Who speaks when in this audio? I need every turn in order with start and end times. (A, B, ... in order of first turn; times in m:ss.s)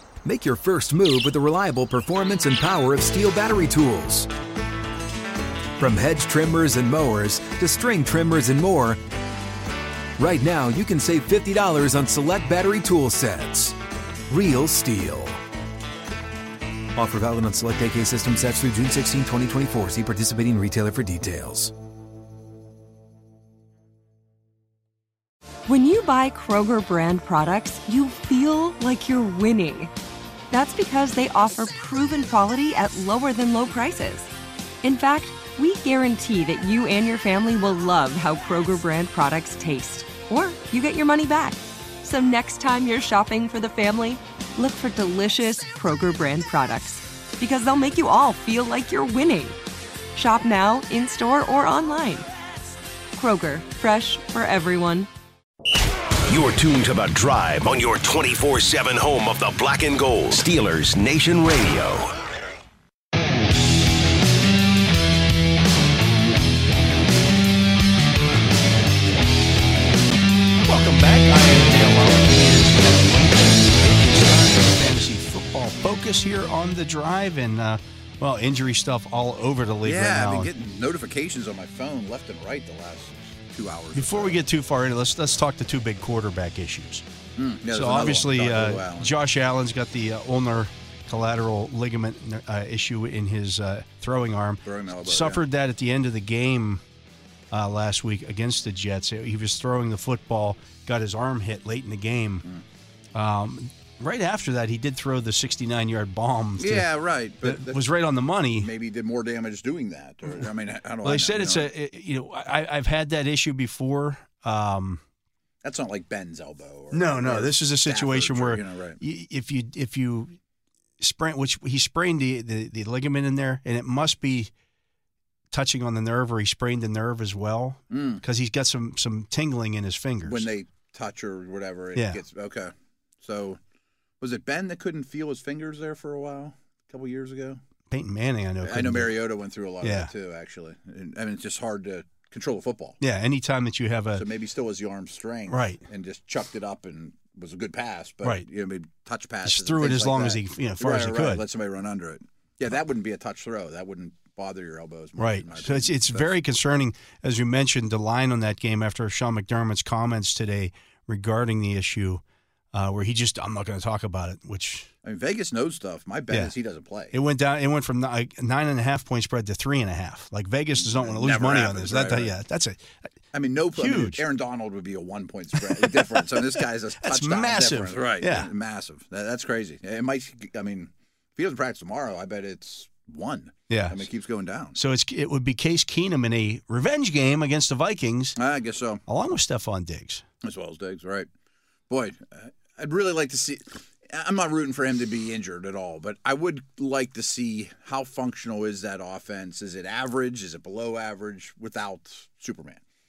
0:00.2-0:04.3 A
0:05.8-0:09.0 A
0:10.2-0:13.7 A
0:14.3-0:15.4 A
0:17.0-0:21.7 A
0:25.7-0:29.9 B
0:30.5-0:34.3 B
0:34.8-0:49.6 B
0:50.1-0:52.3 B
0:53.1-0:55.1 B
0:56.3-1:02.2 C
1:10.6-1:20.5 D
1:19.8-1:24.4 E
1:23.9-1:27.0 D
1:27.4-1:29.1 E
1:27.7-1:36.8 D
1:34.6-1:35.4 E
1:37.5-1:42.4 D
1:43.1-1:46.9 D
1:46.6-1:47.9 E
1:47.4-1:48.7 D
1:48.6-1:51.7 E
1:51.0-1:55.0 D
1:55.6-1:59.0 E
1:56.9-2:00.4 D
2:01.0-2:04.5 D
2:05.5-2:10.5 D
2:07.9-2:08.2 E
2:10.2-2:13.6 E
2:11.9-2:12.2 D
2:14.2-2:17.6 E
2:17.9-2:19.2 D
2:18.6-2:23.0 E
2:19.8-2:20.1 D
2:23.0-2:24.3 D
2:24.1-2:36.4 E
2:25.5-2:25.8 D
2:29.4-2:31.4 D
2:35.2-2:42.2 D
2:42.7-2:44.9 D
2:45.0-2:47.1 E
2:47.1-2:52.8 D
2:50.8-2:52.3 E
2:53.3-3:04.8 E
2:53.7-2:54.2 D
2:55.6-2:56.1 D
2:57.0-2:58.5 D
3:03.7-3:04.1 D
3:04.7-3:08.4 D
3:08.4-3:09.0 E
3:09.1-3:10.2 D
3:10.4-3:11.3 E
3:11.9-3:22.8 E